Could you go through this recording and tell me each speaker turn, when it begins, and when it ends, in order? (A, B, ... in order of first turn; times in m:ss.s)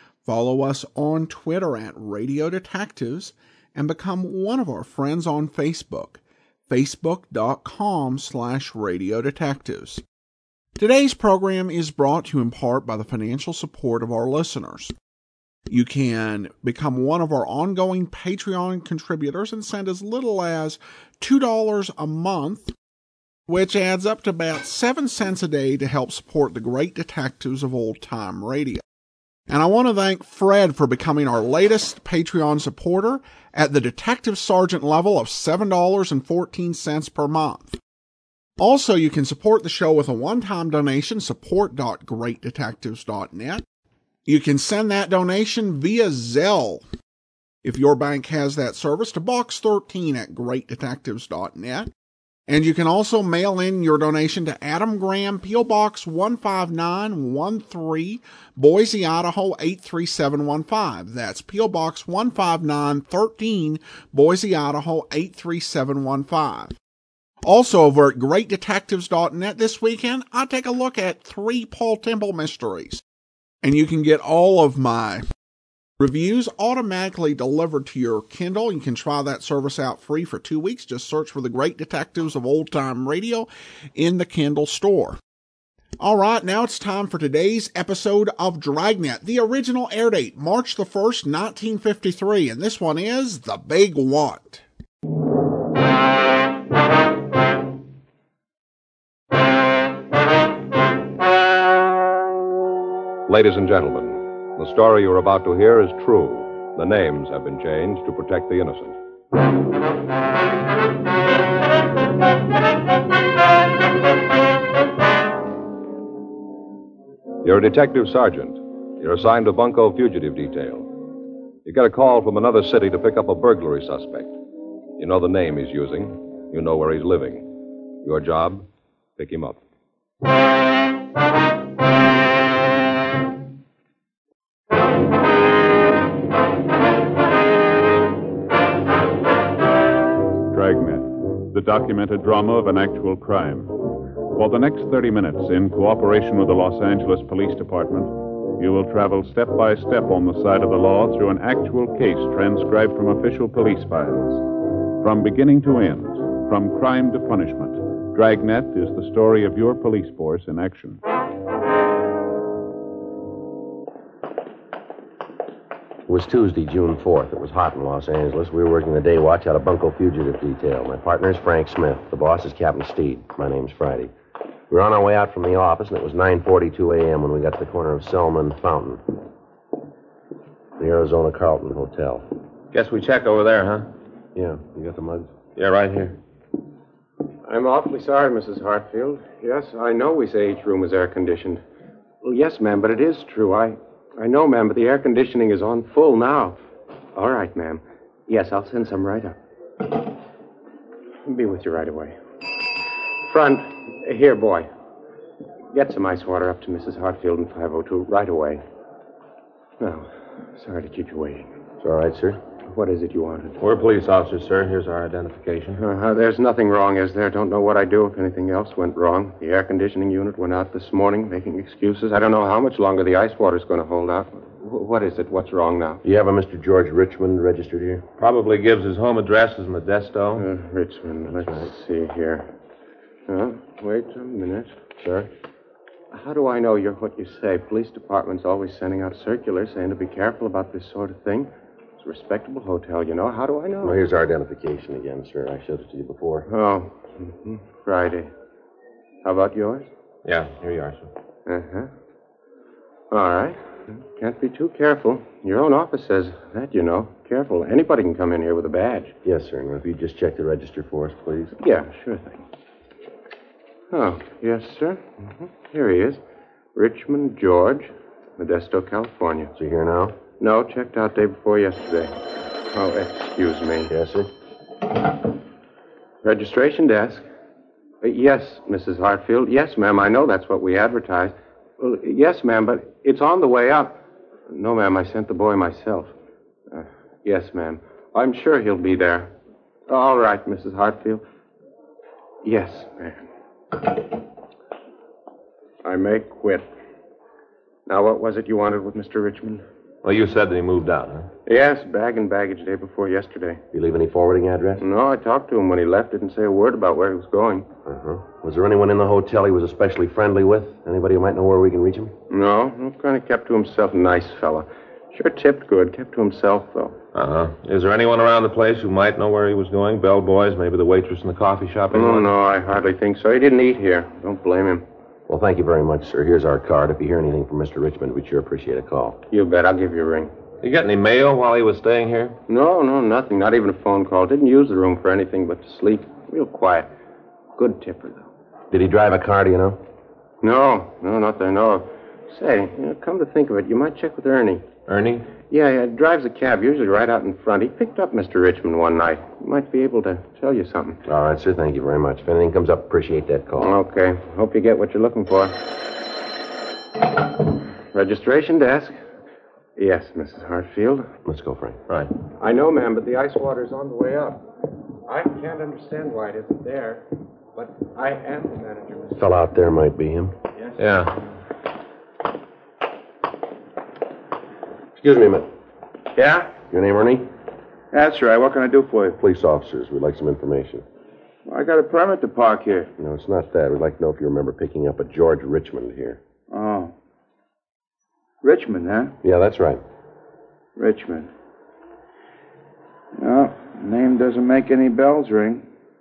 0:00.2-0:10.0 A
0:10.8-0:14.9 A
0:15.7-0:22.7 A
0:23.5-0:28.8 A
0:29.5-0:37.8 A
0:38.6-0:43.6 A
0:44.2-0:46.8 A
0:47.6-0:51.9 A
0:52.5-1:06.7 A
1:07.4-1:13.0 A
1:13.6-1:15.2 A
1:16.0-1:25.2 A
1:26.0-1:34.6 A
1:43.3-1:49.0 B
1:57.4-2:00.9 B
2:01.6-2:04.4 B
2:05.0-2:09.6 B
2:20.5-2:23.7 C
2:24.3-2:34.4 C
2:35.0-2:41.0 C
2:46.1-2:54.1 D
2:54.7-2:59.0 D
3:00.8-3:02.2 D
3:02.7-3:03.9 E
3:04.3-3:05.3 D
3:05.6-3:06.2 E
3:07.4-3:11.6 F
3:12.2-3:16.6 F
3:17.1-3:19.4 F
3:21.2-3:22.2 F
3:23.2-3:24.7 F
3:25.7-3:28.6 F
3:29.8-3:31.5 F
3:31.8-3:32.4 D
3:32.6-3:33.6 F
3:33.6-3:35.8 E
3:35.8-3:46.0 F
3:46.0-3:48.0 D
3:48.2-3:50.4 E
3:50.3-3:52.5 F
3:53.3-3:54.7 F
3:55.0-3:55.3 D
3:56.1-4:04.0 F
4:03.8-4:06.5 D
4:06.5-4:08.3 F
4:09.2-4:09.9 F
4:10.2-4:11.1 E
4:11.4-4:11.9 F
4:13.1-4:19.1 F
4:19.2-4:21.6 D
4:21.6-4:22.4 F
4:23.9-4:26.2 F
4:26.7-4:29.5 F
4:29.5-4:30.2 D
4:30.4-4:33.9 F
4:33.9-4:34.3 D
4:36.2-4:37.2 F
4:38.0-4:46.1 F
4:46.7-4:49.3 F
4:49.9-4:51.2 F
4:52.4-4:53.2 F
4:55.8-4:56.7 F
4:57.8-4:59.6 F
5:00.0-5:01.3 E
5:01.4-5:03.6 F
5:03.7-5:04.8 D
5:04.8-5:07.7 F
5:07.8-5:12.1 D
5:12.3-5:17.0 F
5:17.1-5:22.3 E
5:21.9-5:24.8 F
5:25.3-5:29.2 D
5:29.3-5:30.3 F
5:30.6-5:32.4 E
5:32.5-5:36.9 F
5:37.6-5:38.3 F
5:38.7-5:39.8 D
5:40.4-5:44.7 F
5:44.8-5:45.3 E
5:45.5-5:51.0 F
5:51.0-5:53.7 D
5:53.6-5:55.7 F
5:57.9-5:59.0 F
5:59.8-6:01.1 F
6:01.2-6:01.8 D
6:02.4-6:04.4 F
6:05.0-6:09.2 F
6:09.2-6:10.4 D
6:10.8-6:11.2 E
6:15.0-6:15.5 D
6:16.1-6:16.6 F
6:16.7-6:17.3 D
6:17.9-6:19.2 G
6:19.2-6:20.8 D
6:21.4-6:22.9 G
6:23.0-6:26.2 D
6:26.5-6:26.9 G
6:28.4-6:29.1 G
6:29.2-6:29.8 D
6:30.8-6:31.3 G
6:33.2-6:35.6 G